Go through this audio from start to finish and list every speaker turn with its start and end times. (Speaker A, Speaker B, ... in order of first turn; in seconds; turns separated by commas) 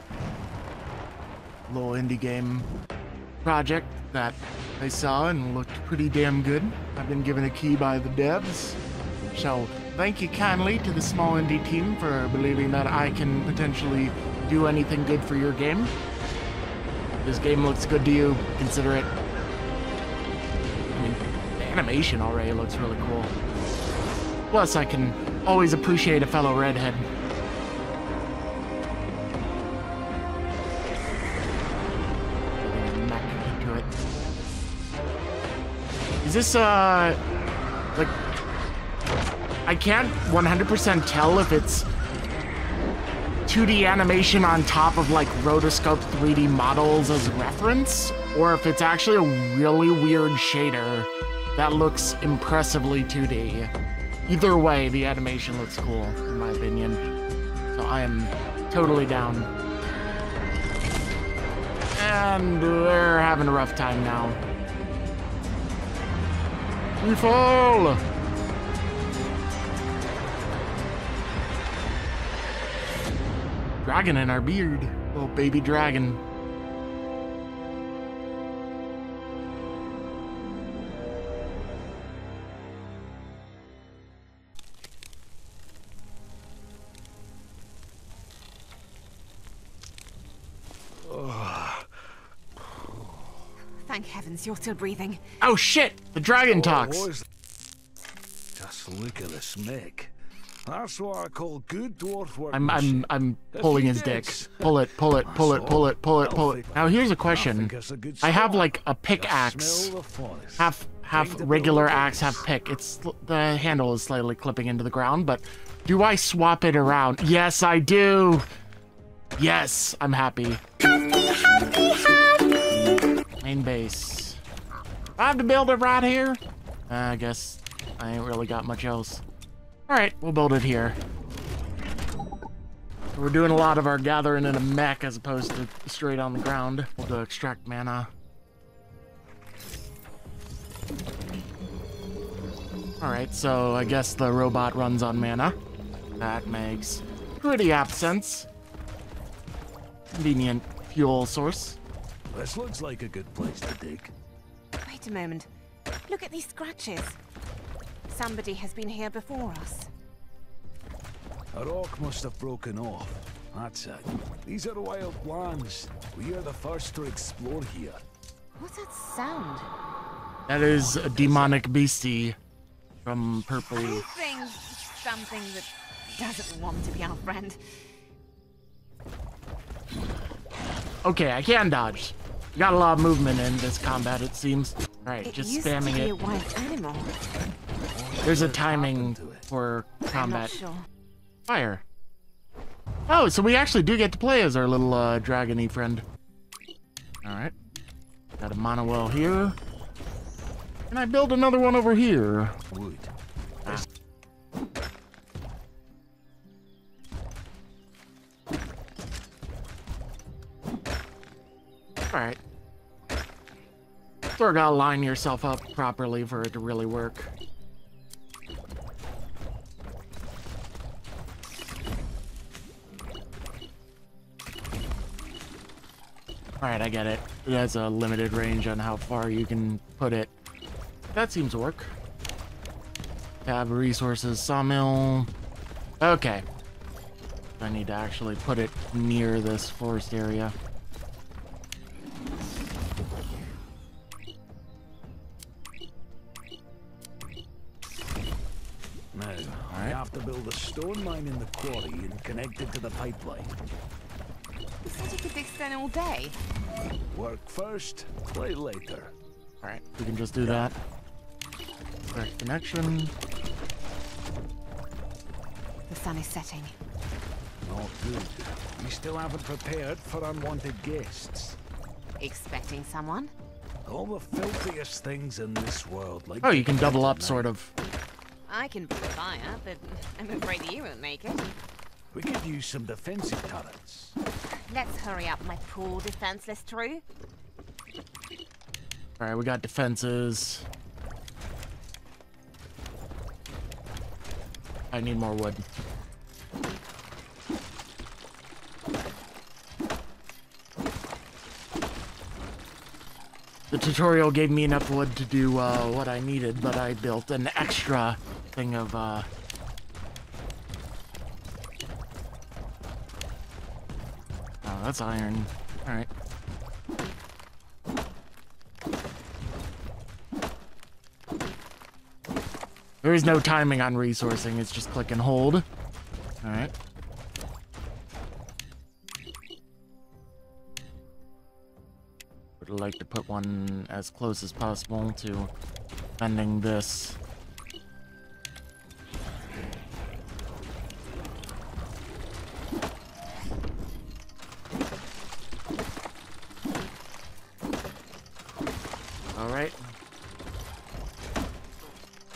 Speaker A: 1.7-2.7, Speaker A: 3.4-8.8, Speaker A: 9.3-15.9, Speaker A: 17.2-19.1, Speaker A: 20.9-23.3, Speaker A: 24.5-27.1, Speaker A: 32.6-33.9, Speaker A: 36.2-37.2, Speaker A: 39.7-41.9, Speaker A: 43.5-53.7, Speaker A: 54.3-57.1, Speaker A: 57.7-59.5, Speaker A: 62.0-64.4, Speaker A: 67.0-68.0, Speaker A: 73.8-76.2, Speaker B: 91.0-93.5, Speaker C: 93.8-95.2, Speaker A: 95.4-97.1, Speaker B: 96.5-97.2, Speaker B: 98.5-100.1, Speaker B: 100.7-112.4, Speaker A: 102.5-109.9, Speaker A: 110.6-118.5, Speaker A: 119.4-120.6, Speaker A: 123.4-124.4, Speaker A: 125.2-129.2, Speaker A: 129.9-131.0, Speaker A: 133.1-138.1, Speaker A: 143.0-145.6, Speaker A: 146.2-148.5, Speaker A: 150.1-151.8, Speaker B: 152.3-154.1, Speaker C: 154.8-155.5, Speaker C: 156.1-157.2, Speaker C: 158.1-159.9, Speaker B: 161.5-168.0, Speaker C: 168.6-169.7, Speaker A: 170.5-172.3, Speaker B: 171.1-171.6, Speaker A: 173.0-174.0, Speaker C: 173.7-177.6, Speaker A: 181.0-186.1, Speaker C: 185.2-187.1, Speaker B: 187.9-189.5, Speaker A: 188.2-190.6, Speaker C: 190.1-190.8, Speaker A: 191.5-191.8, Speaker A: 193.1-196.0, Speaker A: 197.2-197.5, Speaker A: 198.4-199.6, Speaker A: 200.9-202.6, Speaker B: 202.7-203.1, Speaker A: 212.1-212.4, Speaker A: 214.3-217.3, Speaker A: 226.6-230.3, Speaker A: 231.1-231.9, Speaker A: 233.4-235.3, Speaker A: 236.0-236.4, Speaker A: 237.6-240.5, Speaker B: 249.1-253.6, Speaker A: 249.7-250.0, Speaker C: 254.8-256.4, Speaker B: 257.1-259.1, Speaker A: 259.6-260.7, Speaker B: 260.4-260.8, Speaker A: 262.1-263.1, Speaker C: 265.9-266.8, Speaker B: 267.6-271.6, Speaker C: 272.2-273.3, Speaker B: 273.8-277.5, Speaker A: 276.4-277.7, Speaker C: 278.5-281.4, Speaker B: 282.1-284.2, Speaker C: 284.7-287.0, Speaker A: 289.2-290.7, Speaker A: 294.9-295.6, Speaker A: 303.7-309.3, Speaker A: 314.6-316.1, Speaker A: 323.0-325.6, Speaker A: 326.4-326.7, Speaker A: 332.6-335.5, Speaker A: 336.2-337.2, Speaker A: 349.3-349.8